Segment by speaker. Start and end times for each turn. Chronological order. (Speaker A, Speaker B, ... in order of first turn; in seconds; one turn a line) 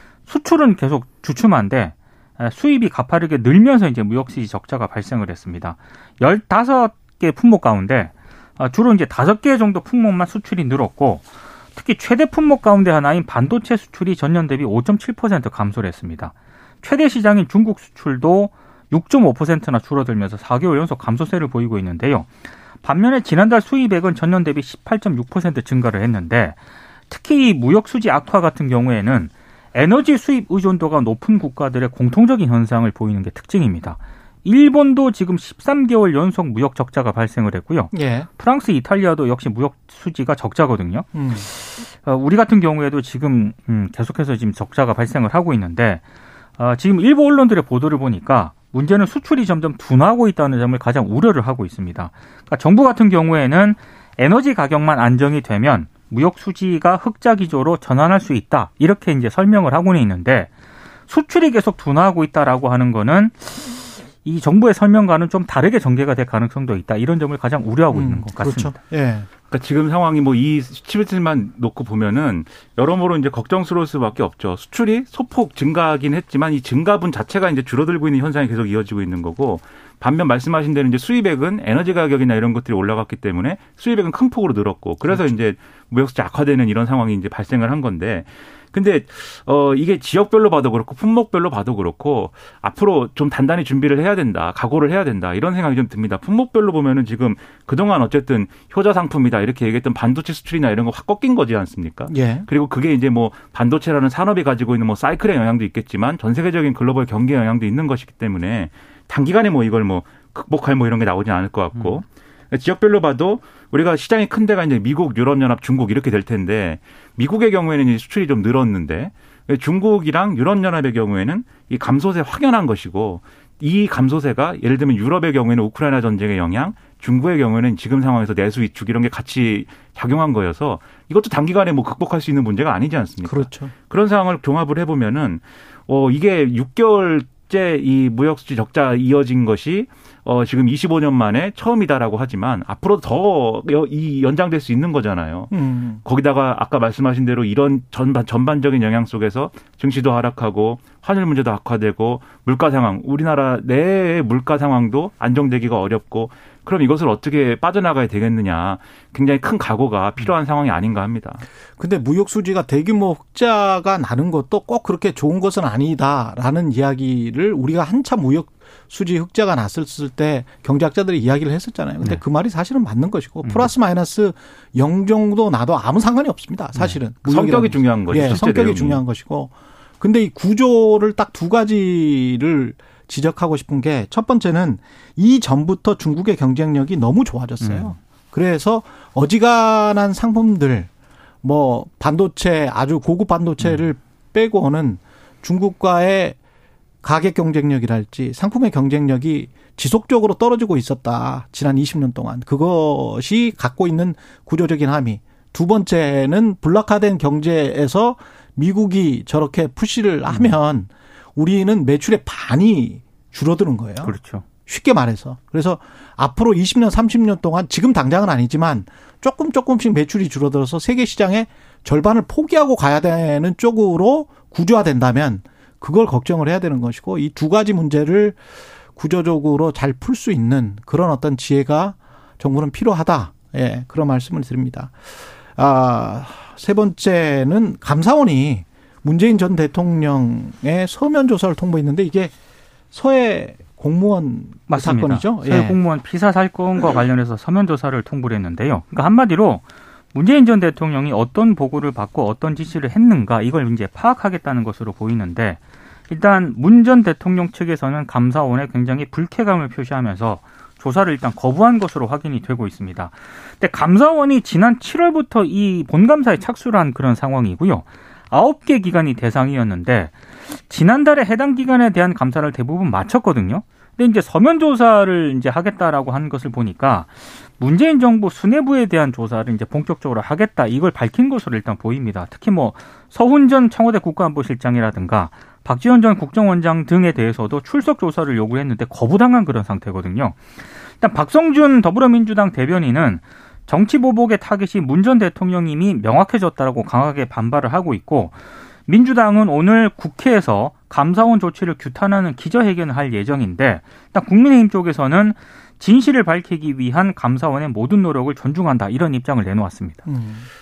Speaker A: 0.3-11.2
Speaker A: 11.8-22.3
Speaker A: 22.8-26.6
Speaker A: 27.1-46.0
Speaker B: 37.9-38.3
Speaker B: 41.1-41.5
Speaker A: 46.6-60.5
Speaker A: 61.1-68.8
Speaker B: 67.9-69.3
Speaker C: 69.5-145.5
Speaker B: 102.1-102.5
Speaker A: 111.8-112.0
Speaker B: 133.2-133.7
Speaker B: 145.5-146.0
Speaker C: 146.0-161.5
Speaker B: 161.8-190.9
Speaker A: 173.4-173.7
Speaker C: 177.2-179.0
Speaker A: 187.6-187.9
Speaker B: 191.4-196.4
Speaker B: 197.0-214.1
Speaker A: 210.3-210.5
Speaker A: 214.0-214.4
Speaker B: 214.7-228.4
Speaker B: 228.9-234.9
Speaker B: 235.6-242.3
Speaker B: 242.9-245.8
Speaker A: 244.7-270.1
Speaker A: 270.7-290.4
Speaker A: 291.0-298.4
Speaker A: 298.9-310.0
Speaker B: 310.1-310.5